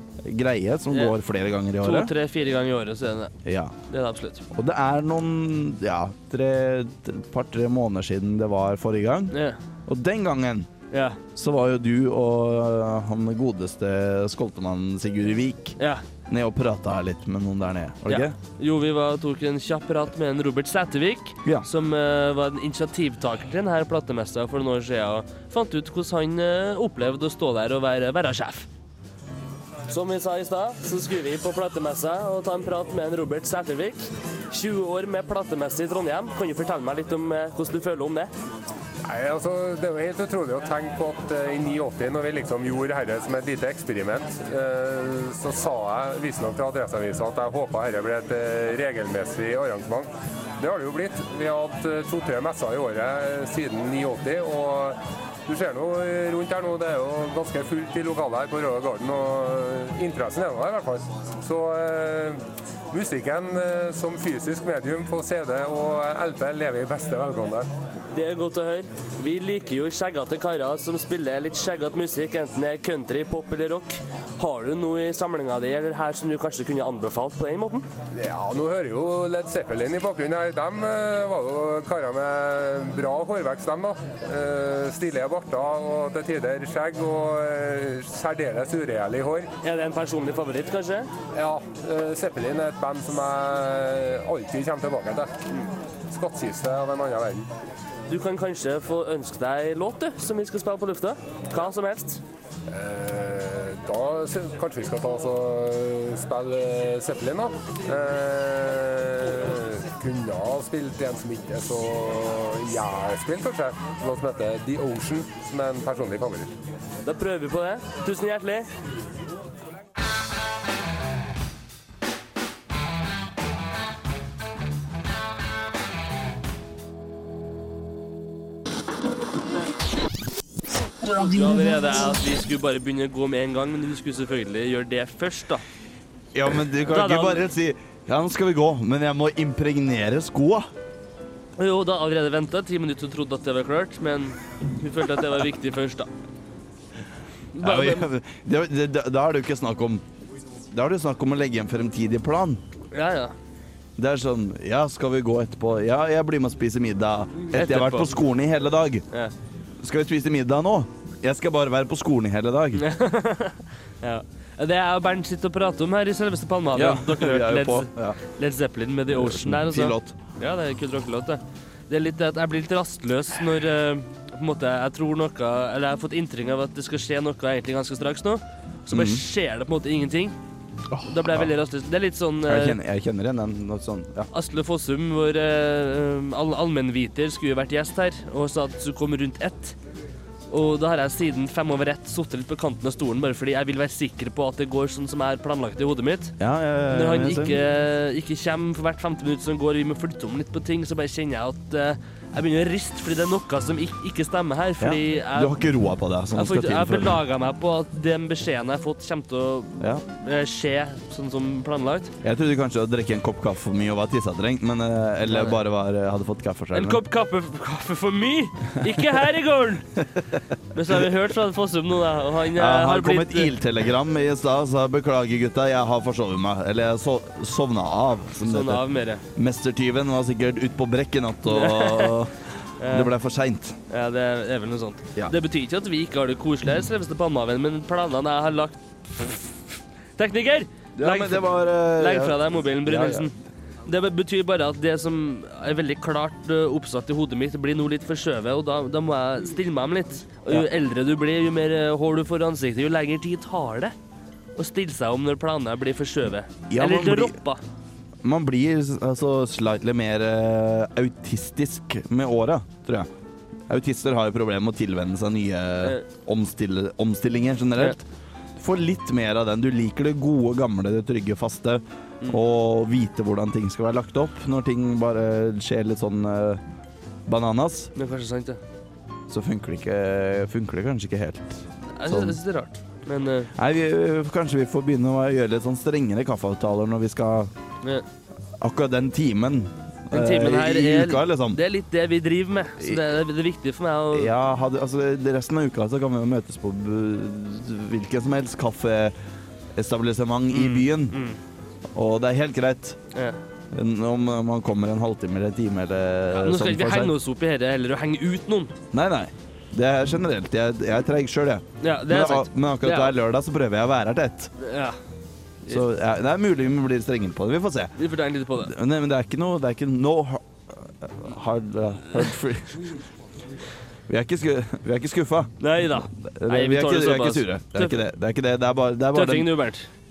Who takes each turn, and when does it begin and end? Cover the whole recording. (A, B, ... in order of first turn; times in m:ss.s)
0:00.2-0:02.1 A
0:01.8-0:03.3 B
0:03.4-0:03.7 A
0:03.9-0:04.4 B
0:04.5-0:10.7 A
0:09.3-0:09.6 B
0:10.9-0:11.2 B
0:11.3-0:18.4 A
0:18.0-0:28.7 B
0:29.9-0:38.3 B
0:39.0-1:07.7 C
1:08.1-1:17.8 B
1:18.1-1:29.5 C
1:29.6-1:31.1 B
1:31.3-1:35.4 C
1:36.1-1:37.5 C
1:38.1-1:42.2 B
1:42.7-1:56.5 C
1:57.0-1:58.7 B
2:11.2-2:15.6 B
2:16.3-2:20.7 A
2:16.8-2:17.4 B
2:21.6-2:26.1 B
2:27.5-2:28.1 B
2:27.6-2:30.0 A
2:30.7-2:32.6 A
2:32.9-2:33.3 B
2:34.0-2:39.0 A
2:37.5-2:38.1 B
2:39.8-2:42.9 A
2:42.8-3:00.4 B
2:46.7-2:48.2 A
2:49.1-2:50.2 A
2:58.9-2:59.2 A
3:00.9-3:01.5 A
3:01.1-3:02.8 B
3:02.4-3:04.3 A
3:04.3-3:09.8 B
3:10.5-3:16.3 B
3:16.4-3:17.6 A
3:16.9-3:25.6 B
3:24.8-3:27.2 A
3:26.3-3:32.1 B
3:32.2-3:37.0 A
3:35.3-3:35.6 B
3:36.7-3:39.9 B
3:40.7-3:43.5 B
3:42.5-3:53.8 A
3:48.4-3:49.2 B
3:51.5-3:52.2 B
3:52.8-3:53.1 B
3:53.9-3:59.6 B
4:00.2-4:03.3 B
4:01.0-4:03.3 A
4:03.8-4:13.9 B
4:14.6-4:17.6 B
4:16.7-4:17.4 A
4:18.2-4:23.1 A
4:23.7-4:28.0 A
4:28.6-4:36.6 A
4:37.2-4:37.9 A
4:37.9-4:38.6 B
4:39.3-4:42.4 A
4:41.9-4:43.5 B
4:43.5-4:47.5 A
4:48.6-4:51.6 A
4:50.1-4:54.3 B
4:54.1-4:59.1 A
4:59.7-5:01.2 A
5:00.5-5:01.4 B
5:01.9-5:03.0 A
5:03.7-5:07.1 A
5:06.3-5:08.7 B
5:08.9-5:14.5 A
5:11.8-5:13.1 B
5:14.6-5:15.0 B
5:15.7-5:17.9 A
5:18.0-5:18.7 B
5:18.6-5:23.0 A
5:24.1-5:29.5 A
5:25.6-5:28.0 B
5:29.1-5:29.9 B